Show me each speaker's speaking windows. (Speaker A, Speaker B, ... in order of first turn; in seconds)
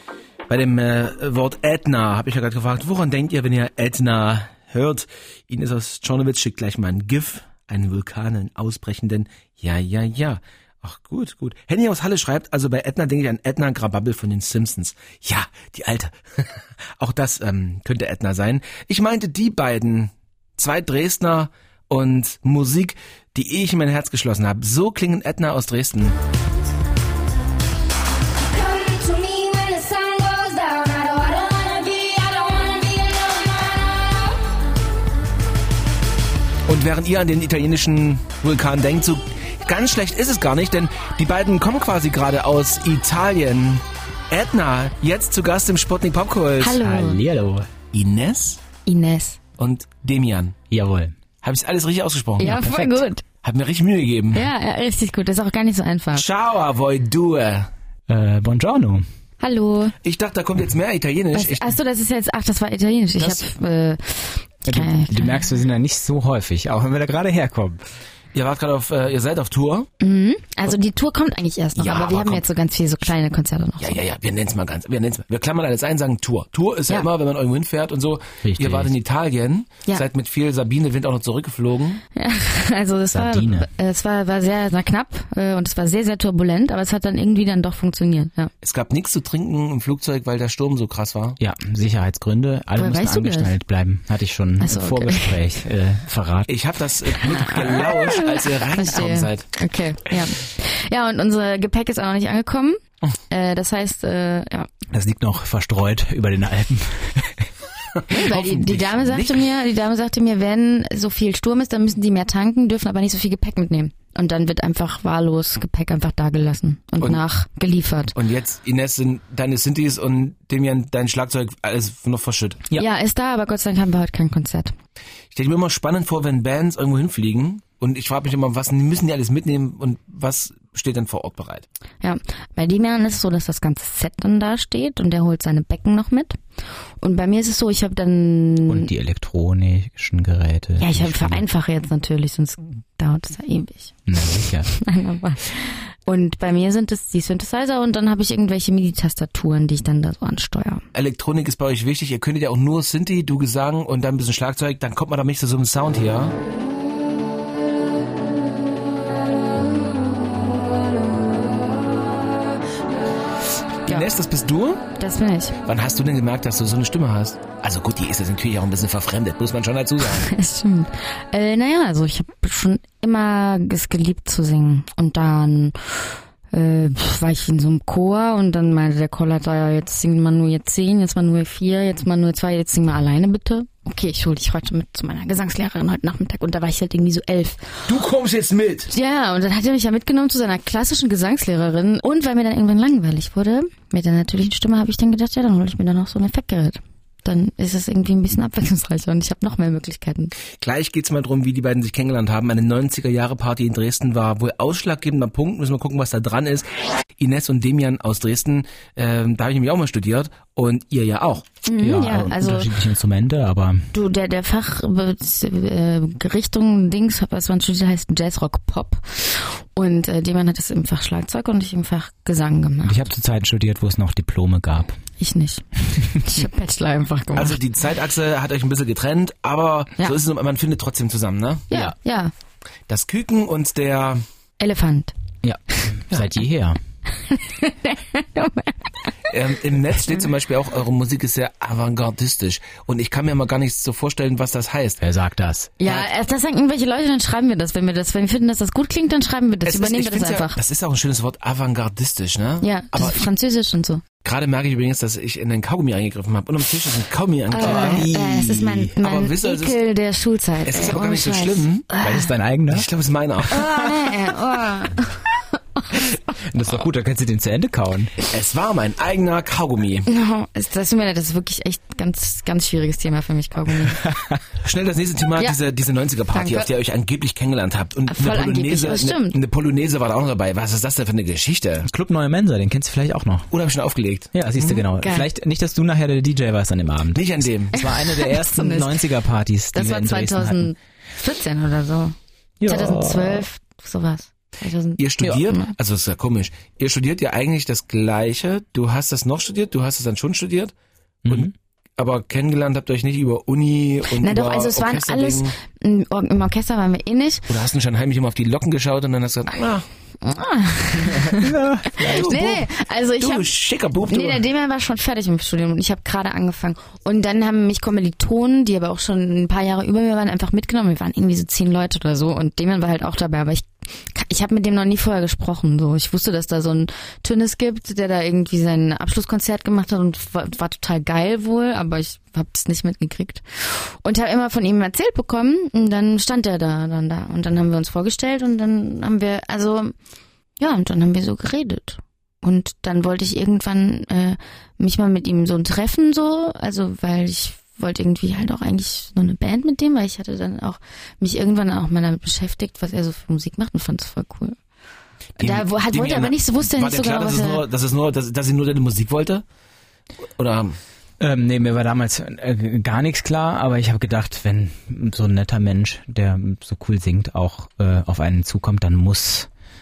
Speaker A: 0.5-26.1, 36.7-46.8, 47.9-48.6, 49.6-50.6, 51.4-52.6, 53.4-54.5, 56.1-57.7, 60.0-61.8, 68.3-69.9, 71.8-72.5, 73.8-82.0, 88.6-91.4, 96.5-99.5, 108.0-109.5, 118.1-122.6, 125.3-131.7, 150.9-156.3, 163.8-164.8, 165.6-170.3, 187.9-188.9, 200.5-211.4, 227.3-231.7, 232.9-234.2, 239.3-245.0, 249.6-253.3, 254.2-259.8, 260.6-261.9, 262.7-263.7, 268.2-270.1, 274.6-281.9, 283.5-284.8, 287.1-287.8, 295.0-300.7, 301.3-305.5, 307.5-309.9, 312.0-312.5, 313.2-314.4, 355.4-359.4, 360.4-360.8
Speaker B: 28.5-33.7, 46.6-47.2, 48.9-49.4, 52.4-53.2, 54.3-56.2, 59.4-59.9, 61.3-65.5, 70.0-74.0, 82.2-88.5, 92.8-93.5, 94.6-95.4, 97.2-102.8, 103.3-104.7, 108.1-118.1, 122.7-124.7, 132.0-136.4, 137.0-138.9, 140.8-150.8, 163.8-164.1, 165.0-165.6, 170.1-188.0, 188.9-200.3, 211.6-212.7, 213.9-223.0, 225.2-227.6, 231.7-232.3, 234.6-235.1, 237.2-239.3, 245.8-250.6, 252.6-254.0, 257.5-262.3, 263.5-265.4, 270.1-274.1, 276.3-276.7, 278.1-279.4, 285.0-285.3, 287.8-289.1, 289.7-295.7, 304.1-307.5, 310.2-339.9, 340.6-354.6, 355.4-357.6
Speaker C: 46.8-47.7, 50.7-51.1, 52.4-53.0, 58.1-59.0, 64.7-67.8, 78.4-78.9, 83.1-83.7, 91.4-96.5, 104.9-107.4, 138.7-141.4, 144.1-144.7, 211.8-213.9, 222.8-225.0, 235.4-236.8, 245.0-245.7, 257.6-258.1, 262.0-262.9, 266.5-268.2, 274.0-274.4, 281.8-283.5, 284.3-290.7, 292.6-293.5, 301.2-301.5, 311.1-312.6, 361.2-369.5